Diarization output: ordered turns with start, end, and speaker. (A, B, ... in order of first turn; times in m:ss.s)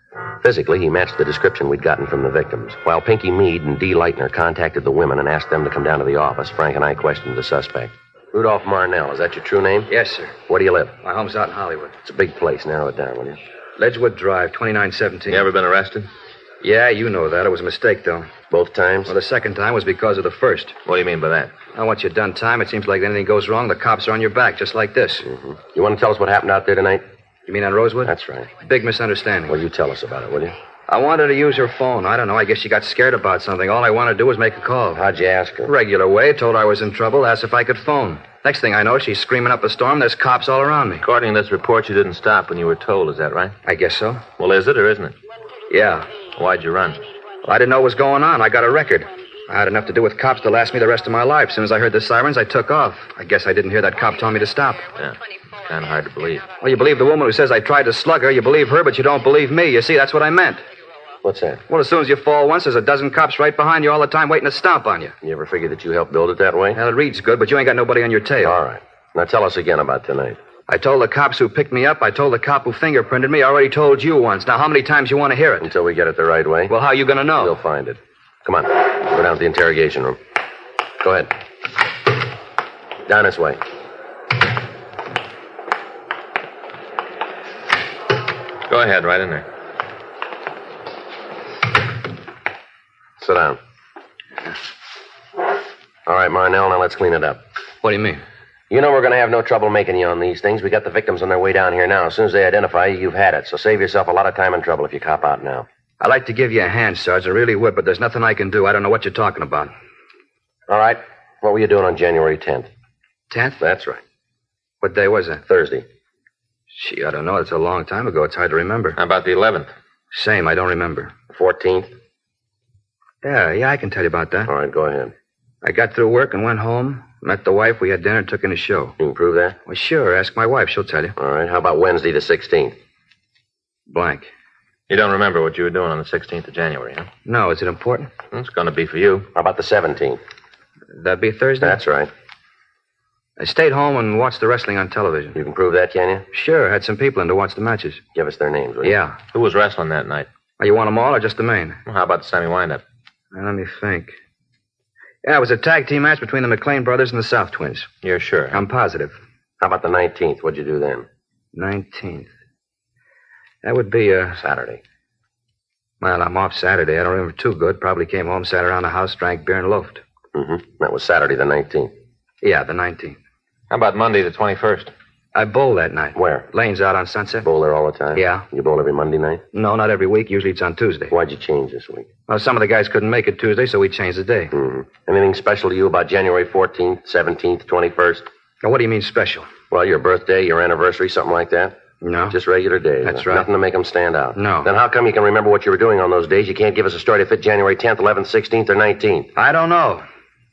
0:00.4-0:09.9 A
0:09.9-0:10.4 B
0:10.4-0:11.0 A
0:11.0-0:12.0 B
0:12.0-0:13.4 A
0:13.8-0:15.5 B
0:15.3-0:16.1 C
0:16.6-0:18.3 B
0:18.5-0:19.2 A
0:19.1-0:20.8 B
0:20.8-0:21.5 C
0:21.7-0:25.3 B
0:25.2-0:27.0 A
0:27.5-0:29.6 B
0:28.0-0:28.5 A
0:29.5-0:30.6 A
0:30.9-0:35.0 B
0:34.9-0:35.7 A
0:35.6-0:41.0 B
0:41.0-0:43.6 C
0:43.6-0:44.2 B
0:44.4-0:45.2 C
0:45.7-0:46.1 B
0:46.3-0:47.0 C
0:47.4-0:54.9 B
0:54.9-0:56.5 C
0:56.6-1:00.6 B
1:01.2-1:01.6 A
1:01.7-1:05.1 B
1:05.2-1:06.8 A
1:06.8-1:08.6 B
1:08.4-1:10.4 A
1:10.7-1:15.7 B
1:15.6-1:20.2 A
1:16.7-1:17.6 B
1:21.0-1:21.3 A
1:23.1-1:23.6 A
1:28.7-1:29.4 C
1:33.2-1:33.6 A
1:36.1-1:37.4 A
1:37.8-1:38.2 B
1:38.7-1:45.6 A
1:46.0-1:49.7 B
1:50.7-1:52.7 A
1:53.3-1:53.6 B
1:53.6-1:54.0 A
1:54.8-1:55.4 B
1:55.5-1:55.8 A
1:56.7-1:59.0 B
1:59.0-1:59.7 C
2:00.1-2:01.1 B
2:01.3-2:01.9 A
2:03.2-2:04.5 B
2:04.4-2:05.1 A
2:05.6-2:08.9 B
2:09.0-2:09.6 A
2:09.7-2:11.1 B
2:11.2-2:12.7 A
2:13.9-2:14.3 B
2:14.9-2:17.1 C
2:17.2-2:18.1 B
2:18.3-2:19.3 C
2:19.3-2:20.2 A
2:21.0-2:21.8 B
2:21.6-2:22.1 A
2:23.4-2:25.4 B
2:25.3-2:26.3 A
2:26.3-2:28.0 B
2:28.1-2:29.0 A
2:28.8-2:29.2 B
2:29.3-2:30.3 C
2:30.6-2:31.8 B
2:31.8-2:32.8 C
2:33.3-2:34.1 B
2:35.2-2:37.9 B
2:38.0-2:38.6 C
2:38.5-2:39.1 B
2:39.6-2:41.1 A
2:41.5-2:42.3 B
2:43.6-2:44.4 B
2:44.4-2:44.8 A
2:46.0-2:50.0 B
2:50.3-2:51.9 A
2:52.4-2:53.2 B
2:53.7-2:54.9 C
2:55.3-2:57.4 B
2:56.2-2:56.5 A
2:57.4-2:59.4 A
2:58.2-2:58.4 B
2:59.5-3:01.1 B
3:01.1-3:02.1 A
3:02.3-3:04.5 B
3:04.5-3:08.2 A
3:08.6-3:09.5 B
3:09.7-3:11.8 A
3:12.0-3:12.4 B
3:12.3-3:19.3 A
3:13.0-3:13.4 B
3:14.4-3:14.7 B
3:19.4-3:20.0 B